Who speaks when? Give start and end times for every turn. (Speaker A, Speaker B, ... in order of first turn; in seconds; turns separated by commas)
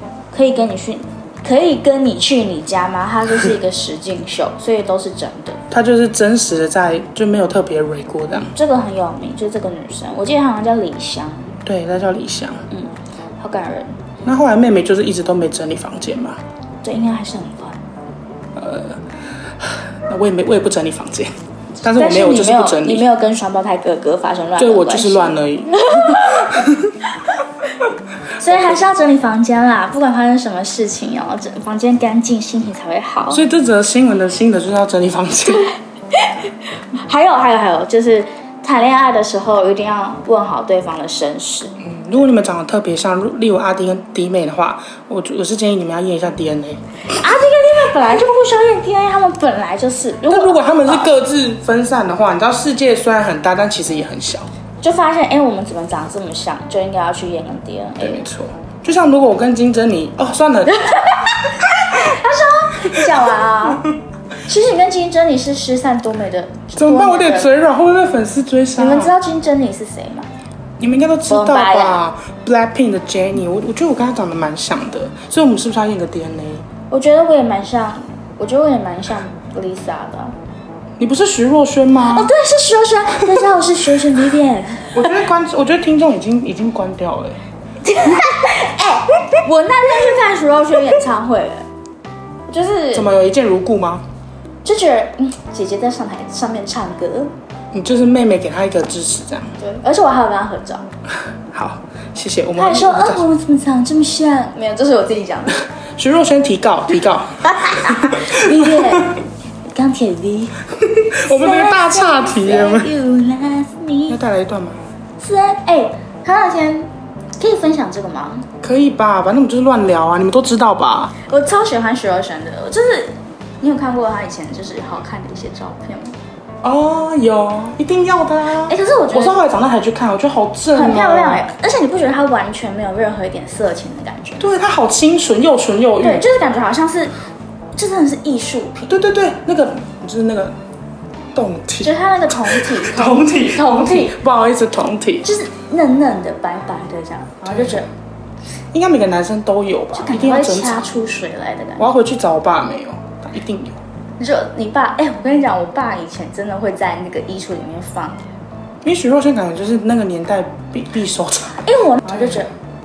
Speaker A: 0.3-5.6, Speaker B: 5.7-8.5, Speaker A: 8.5-11.5, Speaker B: 11.7-12.6, Speaker A: 12.7-14.0, Speaker B: 14.2-16.4, Speaker A: 16.8-17.8, Speaker B: 18.6-19.0, Speaker B: 19.6-23.1, Speaker A: 21.9-26.6, Speaker B: 24.6-26.9, Speaker A: 28.4-33.4, Speaker B: 28.4-28.8, Speaker B: 33.3-35.7, Speaker A: 36.1-41.8, Speaker B: 41.8-46.8, Speaker A: 47.1-51.1, Speaker B: 50.3-54.5, Speaker A: 54.8-58.2, Speaker B: 58.0-60.8, Speaker A: 60.7-63.8, Speaker A: 64.4-67.5, Speaker B: 66.8-69.2, Speaker A: 68.8-70.3, Speaker B: 70.8-76.6, Speaker A: 71.3-72.0, Speaker A: 76.9-80.3, Speaker B: 81.0-82.3, Speaker A: 82.0-85.1, Speaker B: 84.9-87.4, Speaker A: 87.8-91.6, Speaker A: 92.5-93.1, Speaker B: 92.9-94.0, Speaker A: 94.6-97.3, Speaker B: 97.7-99.5, Speaker A: 99.6-100.8, Speaker B: 101.5-103.2, Speaker A: 102.5-105.6, Speaker B: 106.0-109.0, Speaker A: 107.5-110.6, Speaker B: 111.0-112.9, Speaker A: 111.1-114.2, Speaker B: 114.1-114.8, Speaker A: 115.2-118.5, Speaker B: 118.6-121.2, Speaker A: 121.2-126.2, Speaker B: 126.6-131.4, Speaker A: 128.7-129.5, Speaker A: 130.7-134.5, Speaker B: 134.4-136.3, Speaker A: 136.0-137.1, Speaker A: 137.8-139.0, Speaker B: 138.9-140.5, Speaker B: 141.3-145.3, Speaker A: 141.8-144.2, Speaker A: 145.2-147.9, Speaker B: 147.4-147.8, Speaker B: 148.7-150.8, Speaker A: 149.9-151.9, Speaker B: 151.8-153.8, Speaker A: 154.2-158.2, Speaker B: 158.8-162.5, Speaker A: 161.6-162.5